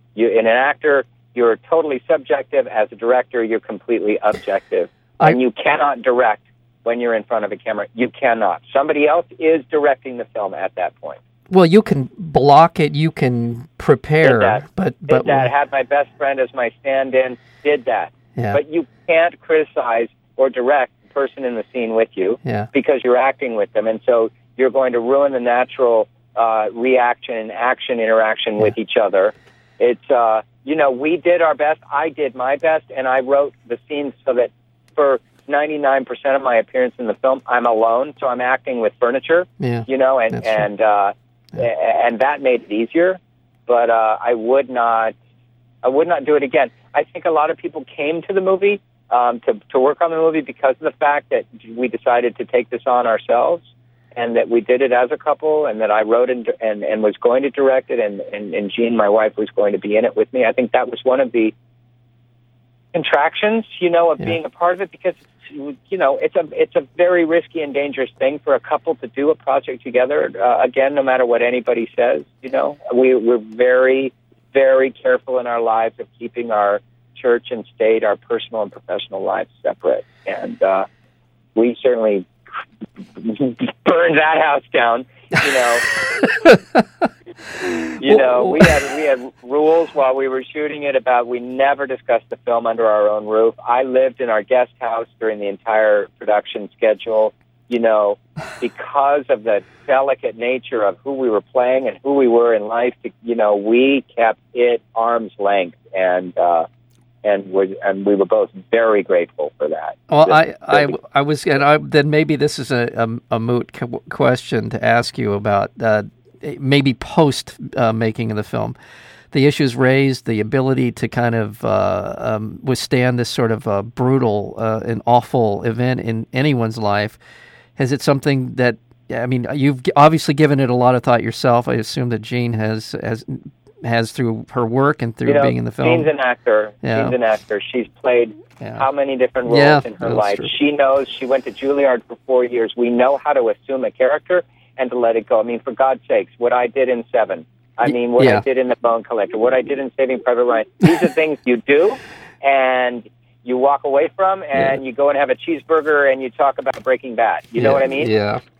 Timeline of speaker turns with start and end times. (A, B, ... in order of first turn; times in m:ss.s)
0:00.2-0:11.2 A
0:11.5-0:15.5 B
0:14.2-0:45.2 A
0:39.6-0:40.6 B
0:45.8-1:01.5 A
1:02.9-1:20.8 A
1:21.6-1:22.3 A
1:23.2-1:25.9 A
1:26.4-1:26.8 B
1:27.6-1:28.7 B
1:28.0-1:46.7 A
1:47.2-1:50.9 A
1:50.1-1:58.7 B
1:59.3-2:07.2 B
2:07.8-2:16.1 B
2:15.2-2:38.1 A
2:16.8-2:17.2 B
2:18.6-2:18.8 B
2:19.4-2:20.5 B
2:27.8-2:28.4 B
2:37.6-2:38.4 B